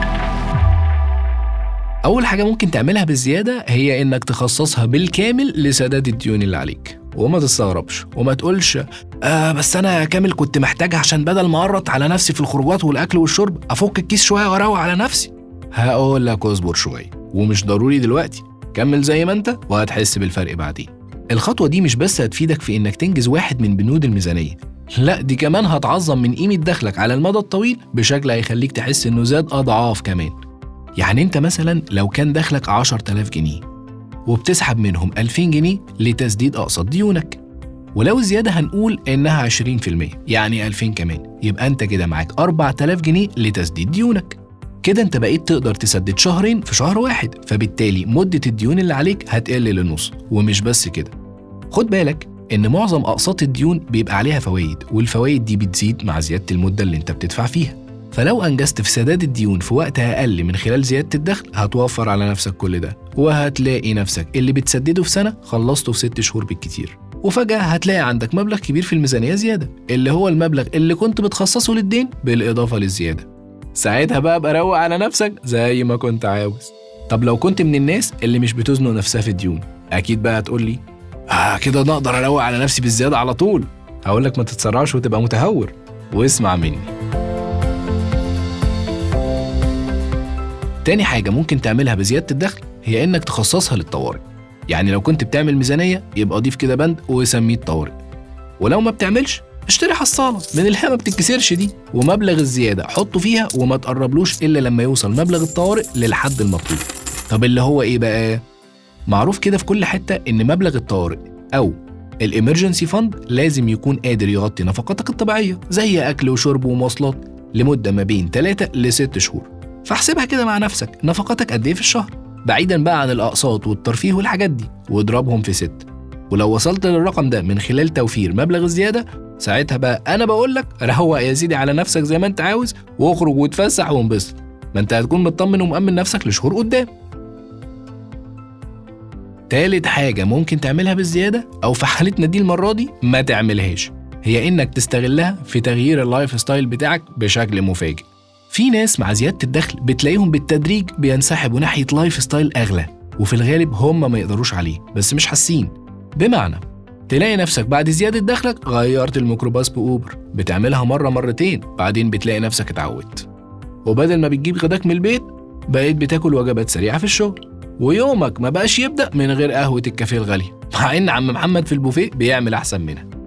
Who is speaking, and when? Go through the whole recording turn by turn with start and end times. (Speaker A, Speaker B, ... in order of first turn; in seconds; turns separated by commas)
Speaker A: 2.0-30.4, Speaker A: 31.0-33.6, Speaker A: 34.2-37.4, Speaker A: 37.9-51.1, Speaker A: 51.7-86.9, Speaker A: 90.8-98.0, Speaker A: 98.6-108.4, Speaker A: 109.1-136.9, Speaker A: 139.5-163.3, Speaker A: 163.8-173.1